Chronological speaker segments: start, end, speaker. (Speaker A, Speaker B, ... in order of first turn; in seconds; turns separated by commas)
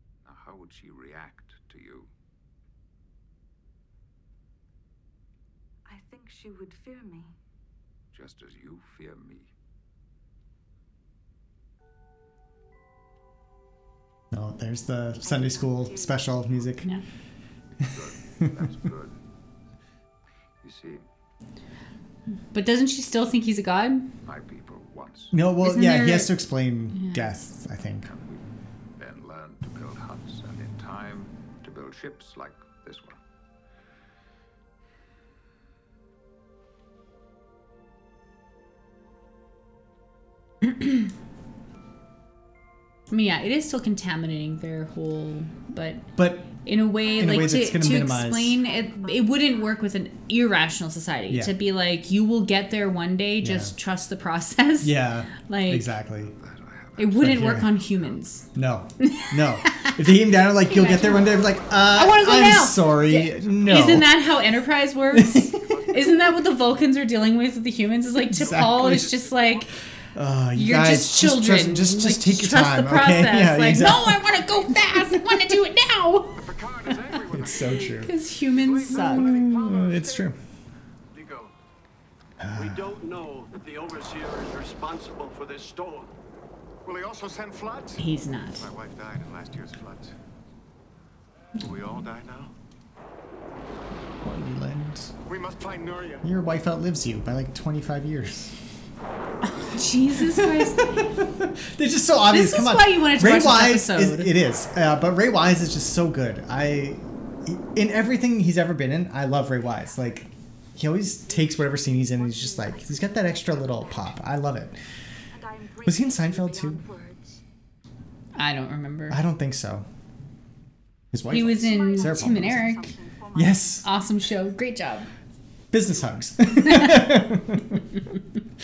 Speaker A: 0.2-2.1, Speaker B: 5.8-7.3, Speaker A: 8.1-9.5, Speaker C: 14.3-16.9, Speaker B: 15.2-16.5, Speaker A: 17.8-19.2, Speaker A: 20.6-21.0, Speaker D: 22.5-24.1, Speaker A: 24.2-25.4, Speaker C: 25.3-28.1, Speaker D: 25.6-26.4, Speaker D: 26.9-27.3, Speaker A: 28.0-28.4, Speaker A: 28.9-33.2, Speaker D: 40.6-41.0, Speaker D: 43.1-46.1, Speaker C: 46.1-46.5, Speaker D: 46.6-55.9, Speaker B: 47.0-48.0, Speaker C: 47.1-48.6, Speaker B: 48.5-49.8, Speaker C: 51.3-51.5, Speaker C: 53.4-53.7, Speaker C: 54.8-56.3, Speaker A: 56.2-58.5, Speaker D: 57.0-58.5, Speaker C: 57.2-57.7, Speaker C: 58.5-64.2, Speaker D: 59.0-69.7, Speaker C: 65.1-65.7, Speaker A: 65.6-66.0, Speaker C: 68.3-69.2, Speaker E: 69.1-69.6, Speaker C: 70.1-74.4, Speaker D: 70.5-76.4, Speaker C: 74.9-75.4, Speaker E: 76.3-78.0, Speaker C: 77.3-78.1, Speaker D: 77.7-79.3, Speaker E: 78.6-80.3, Speaker C: 78.9-80.4, Speaker F: 81.1-81.5, Speaker C: 82.4-83.0, Speaker F: 82.5-86.1, Speaker E: 86.8-88.0, Speaker D: 88.0-88.7, Speaker E: 88.5-90.1, Speaker E: 91.5-92.5, Speaker C: 94.2-95.1, Speaker E: 95.2-96.3, Speaker C: 96.2-98.6, Speaker D: 99.4-101.1, Speaker C: 100.3-114.8, Speaker D: 102.3-104.3, Speaker B: 111.2-114.2, Speaker B: 115.3-117.4, Speaker C: 115.8-116.8, Speaker D: 118.3-119.2, Speaker C: 119.1-119.8, Speaker C: 121.1-123.8, Speaker D: 121.3-122.9, Speaker B: 121.4-123.8, Speaker D: 123.8-125.1, Speaker C: 125.7-127.8, Speaker D: 126.7-127.0